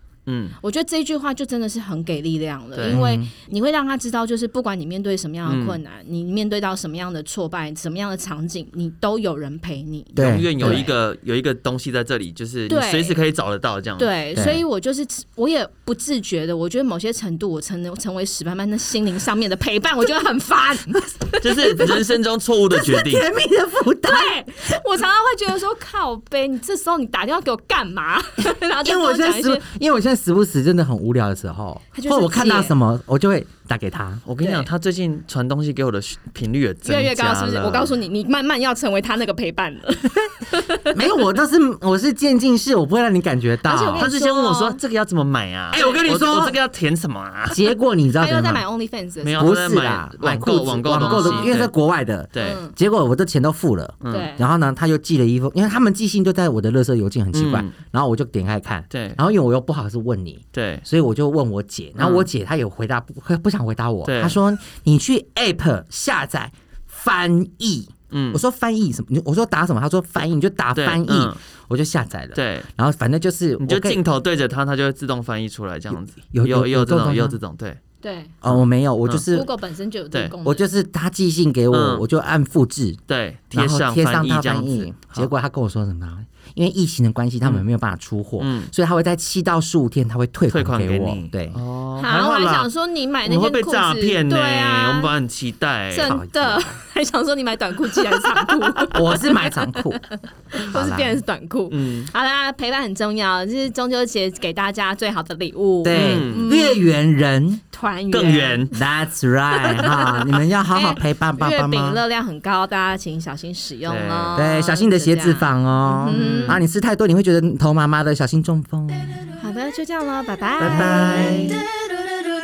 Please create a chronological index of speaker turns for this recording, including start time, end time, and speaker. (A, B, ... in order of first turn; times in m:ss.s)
0:00.3-0:00.6 A
0:00.6-0:10.9 B
0:02.8-0:03.0 A
0:02.9-0:03.3 C
0:05.5-0:05.8 A
0:10.2-0:10.9 C
0:10.2-0:14.1 A
0:12.7-0:13.2 B
0:14.0-0:22.0 B
0:14.4-0:14.6 C
0:21.4-0:23.3 A
0:22.7-0:24.4 C
0:24.0-0:29.7 B
0:28.8-0:34.2 C
0:31.9-0:32.8 B
0:34.3-0:37.9 A
0:36.8-0:41.0 B
0:40.8-0:44.1 C
0:43.6-0:44.8 B
0:44.0-0:47.6 A
0:45.7-0:46.6 C
0:45.8-0:46.0 B
0:47.5-0:48.6 C
0:48.2-0:49.5 B
0:49.2-0:51.7 A
0:49.4-1:14.0 C
0:50.3-0:51.6 B
0:52.3-0:52.6 A
0:52.4-0:52.8 B
0:54.0-0:54.3 A
0:54.1-0:54.4 B
0:57.3-0:57.7 A
0:58.9-0:59.2 A
1:00.5-1:00.8 A
1:02.0-1:02.3 A
1:04.0-1:04.4 A
1:08.1-1:08.4 A
1:10.8-1:11.4 A
1:12.4-1:12.7 A
1:13.6-1:17.8 A
1:15.9-1:17.4 C
1:18.0-1:18.4 B
1:18.4-1:19.5 C
1:18.5-1:19.3 A
1:19.3-1:20.7 B
1:20.4-1:23.0 C
1:21.7-1:22.1 A
1:23.1-1:25.3 A
1:23.5-1:31.6 C
1:28.4-1:28.7 A
1:30.5-1:32.7 A
1:32.0-1:35.1 B
1:33.2-1:36.2 A
1:35.9-1:39.6 B
1:36.0-1:36.8 C
1:38.8-1:40.0 C
1:40.1-1:46.9 B
1:40.5-1:41.2 C
1:41.7-1:42.1 A
1:45.8-1:47.6 C
1:45.9-1:46.5 A
1:47.7-1:48.7 B
1:48.1-1:48.7 A
1:48.7-1:52.0 C
1:49.5-1:56.6 B
1:53.9-1:54.4 A
1:54.4-1:59.3 C
1:56.1-1:56.6 A
1:59.4-2:01.6 B
2:00.6-2:01.6 A
2:00.6-2:01.6 C